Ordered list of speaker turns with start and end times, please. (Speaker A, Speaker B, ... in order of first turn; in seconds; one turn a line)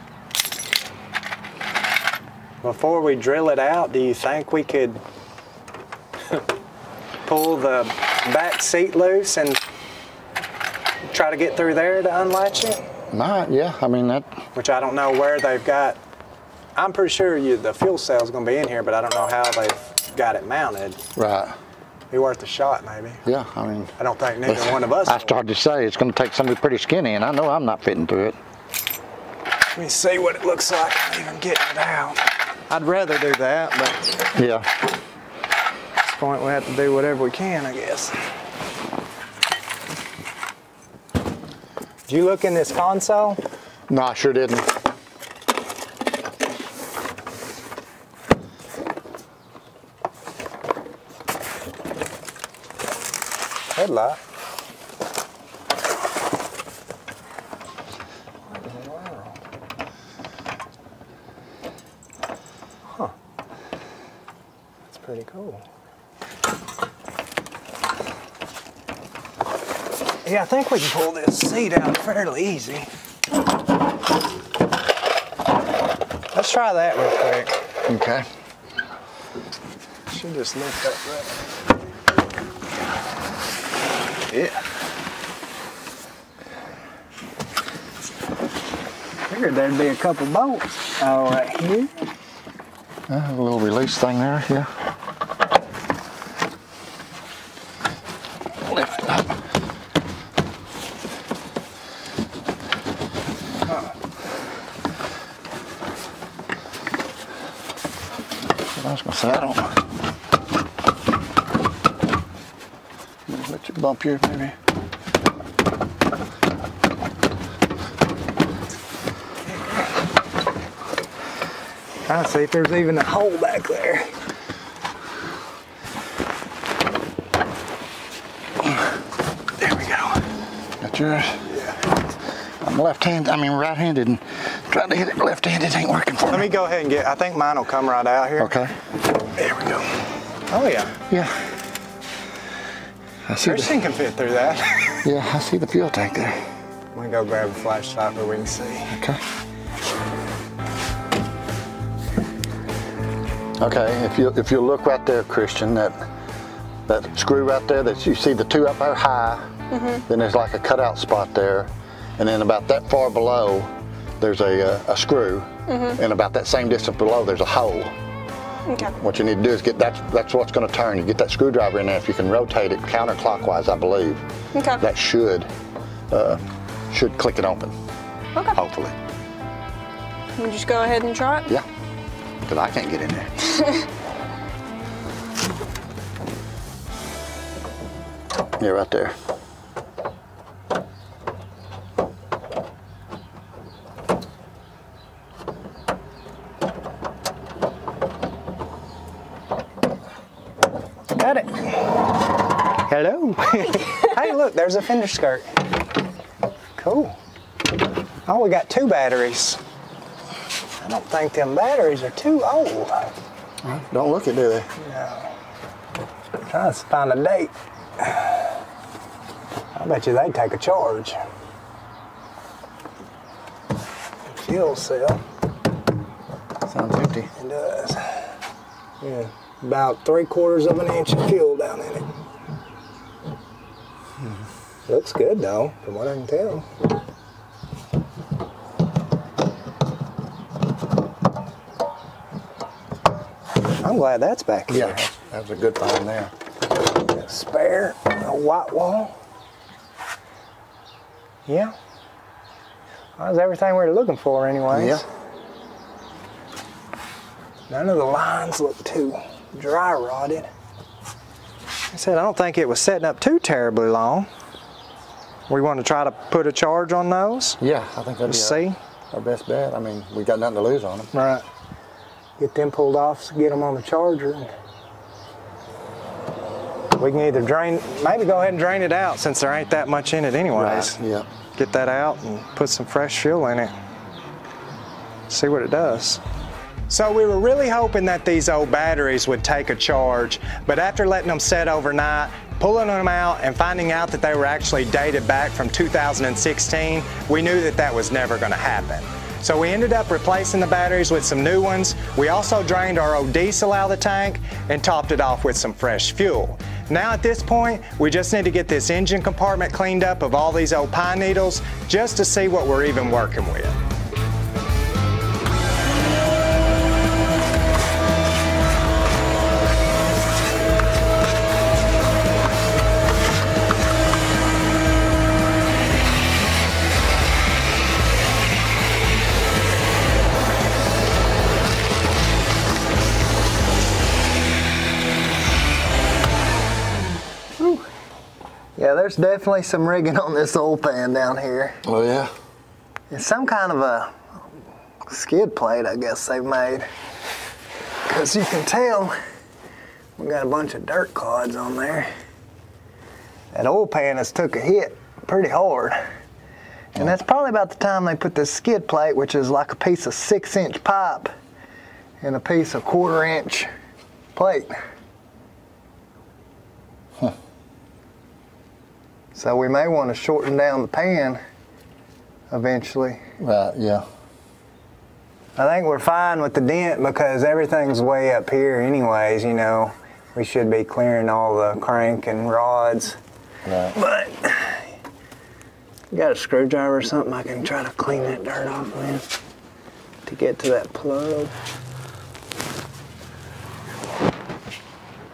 Speaker A: 2.6-5.0
Speaker A: 7.3-9.6
Speaker A: 11.1-12.8
Speaker B: 13.1-14.4
Speaker A: 14.6-16.0
Speaker A: 16.8-21.0
Speaker B: 21.1-21.6
Speaker A: 22.1-23.2
Speaker B: 23.2-23.9
Speaker A: 24.0-25.4
Speaker B: 24.5-28.4
Speaker A: 29.8-34.1
Speaker B: 34.4-34.7
Speaker A: 36.0-38.2
Speaker A: 42.1-43.4
Speaker B: 43.9-44.7
Speaker A: 53.7-54.2
Speaker A: 58.5-59.3
Speaker A: 64.9-65.6
Speaker A: 70.2-72.9
Speaker A: 76.3-77.6
Speaker B: 77.9-78.3
Speaker A: 80.1-81.4
Speaker A: 84.3-84.6
Speaker A: 89.3-91.9
Speaker B: 93.1-94.7
Speaker B: 98.7-99.3
Speaker B: 108.7-109.8
Speaker B: 113.3-114.6
Speaker A: 122.1-124.1
Speaker A: 129.6-130.2
Speaker B: 130.8-131.4
Speaker A: 131.5-131.8
Speaker B: 132.6-136.5
Speaker A: 136.3-138.6
Speaker B: 138.4-138.7
Speaker A: 139.3-140.0
Speaker A: 140.5-141.0
Speaker B: 141.1-141.5
Speaker B: 143.3-143.7
Speaker A: 143.4-145.0
Speaker B: 145.0-146.5
Speaker A: 146.9-149.0
Speaker B: 148.9-149.2
Speaker B: 153.6-156.0
Speaker B: 156.9-159.5
Speaker C: 159.7-160.0
Speaker B: 160.1-167.9
Speaker C: 165.7-166.0
Speaker C: 168.7-168.9
Speaker B: 168.9-174.2
Speaker C: 174.6-174.8
Speaker B: 174.8-175.5
Speaker B: 176.1-177.8
Speaker B: 178.5-179.0
Speaker C: 180.4-181.5
Speaker B: 182.5-183.7
Speaker B: 188.6-189.2
Speaker A: 201.1-202.0
Speaker A: 202.8-205.5
Speaker A: 206.8-207.2
Speaker A: 208.3-209.6
Speaker A: 210.8-213.1
Speaker B: 213.6-214.7
Speaker A: 214.8-215.3
Speaker A: 216.4-218.5
Speaker A: 219.8-221.2
Speaker A: 224.3-225.2
Speaker B: 226.7-227.3
Speaker A: 227.4-228.3
Speaker A: 229.0-232.1
Speaker A: 234.9-236.7
Speaker A: 243.8-245.0
Speaker B: 244.7-246.3
Speaker A: 247.1-249.2
Speaker A: 251.5-251.8
Speaker A: 253.2-255.0
Speaker B: 254.7-255.0
Speaker A: 257.7-260.5
Speaker A: 261.9-264.3
Speaker A: 265.5-267.6
Speaker B: 267.6-271.1
Speaker A: 268.3-268.8
Speaker A: 271.1-271.4
Speaker A: 272.4-274.5
Speaker A: 277.0-281.0
Speaker B: 280.5-281.3
Speaker A: 281.6-283.7
Speaker A: 285.3-286.2
Speaker A: 286.9-313.8
Speaker A: 337.6-337.8
Speaker A: 338.8-341.8
Speaker B: 341.8-342.3
Speaker A: 343.1-344.2
Speaker A: 345.1-346.9
Speaker A: 348.1-349.2
Speaker A: 350.2-352.1
Speaker A: 353.5-356.0
Speaker A: 356.9-361.3
Speaker A: 362.2-363.7
Speaker A: 364.4-364.7
Speaker A: 369.4-371.4
Speaker A: 372.5-373.2
Speaker B: 373.4-374.1
Speaker A: 375.6-383.2
Speaker B: 383.7-384.0
Speaker A: 383.9-384.9
Speaker A: 386.1-389.3
Speaker A: 390.3-391.6